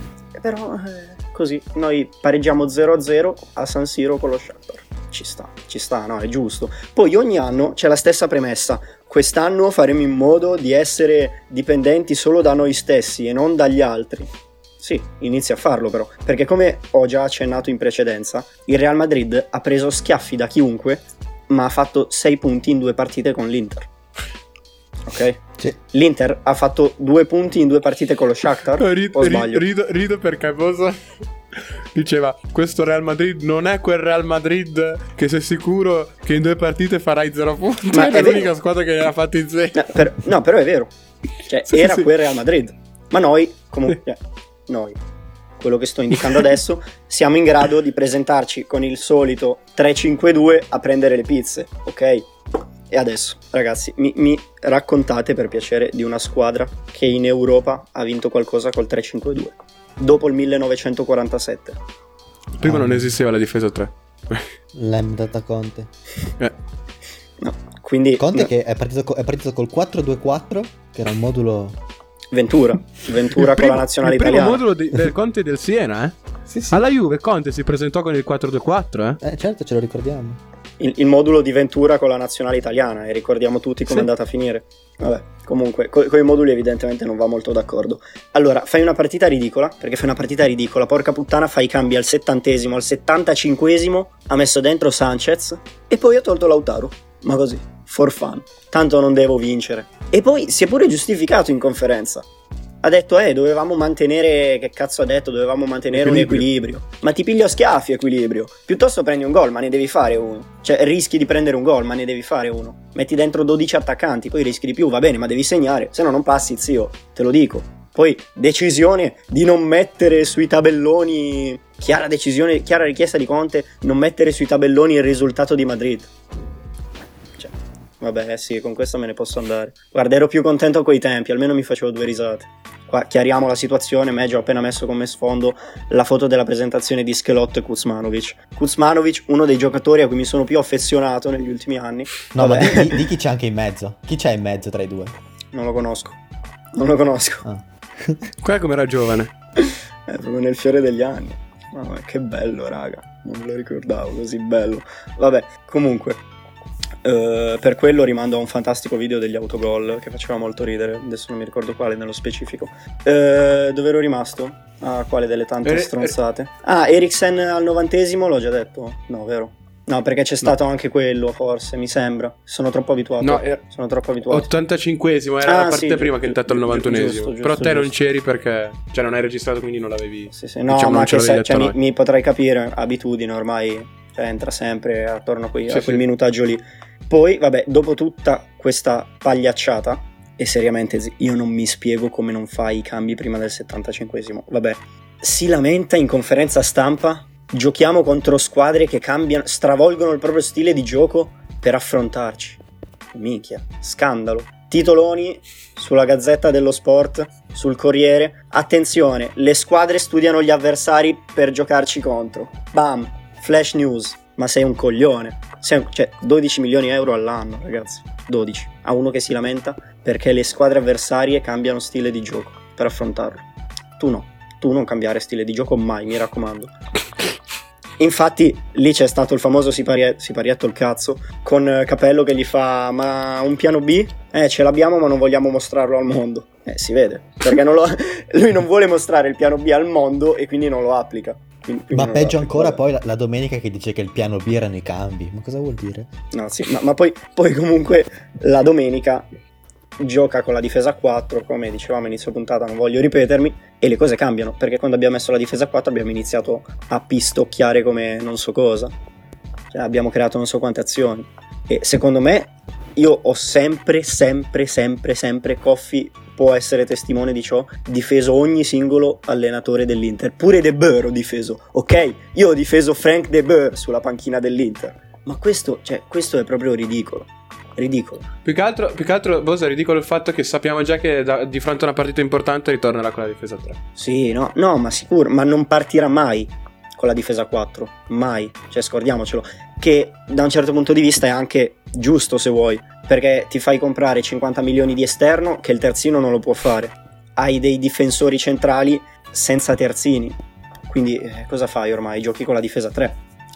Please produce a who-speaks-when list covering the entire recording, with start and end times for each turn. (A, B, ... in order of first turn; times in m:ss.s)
0:00.3-0:14.3 A
0:14.8-0:23.9 A
0:25.1-0:29.6 A
0:28.8-0:31.0 B
0:31.6-0:39.8 B
0:37.9-0:38.5 A
0:39.7-0:45.0 A
0:41.7-0:42.1 B
0:45.6-0:52.3 A
0:52.9-1:01.8 A
1:02.6-1:04.5 B
1:02.6-1:03.2 C
1:04.7-1:05.9 C
1:07.4-1:08.5 A
1:08.2-1:11.8 C
1:12.3-1:14.6 A
1:13.3-1:19.2 B
1:19.2-1:20.4 C
1:20.8-1:42.2 A
1:42.8-2:06.1 A
1:45.9-1:46.4 B
2:07.4-2:23.0 A
2:22.3-2:25.1 C
2:25.5-2:26.2 A
2:26.7-2:27.4 A
2:27.4-2:28.3 C
2:28.4-2:29.3 B
2:29.6-2:36.2 A
2:37.0-2:54.5 A
2:45.6-2:46.2 B
2:53.2-2:53.6 B
2:54.3-3:01.7 B
2:55.4-2:57.9 A
3:00.3-3:22.6 A
3:05.7-3:06.0 B
3:23.1-3:43.4 A
3:44.0-3:46.7 A
3:48.0-4:02.8 A
4:01.9-4:06.1 C
4:06.3-4:09.3 A
4:10.0-4:18.9 A
4:19.7-4:38.2 A
4:38.4-4:43.8 B
4:44.0-5:00.4 A
5:00.9-5:03.2 A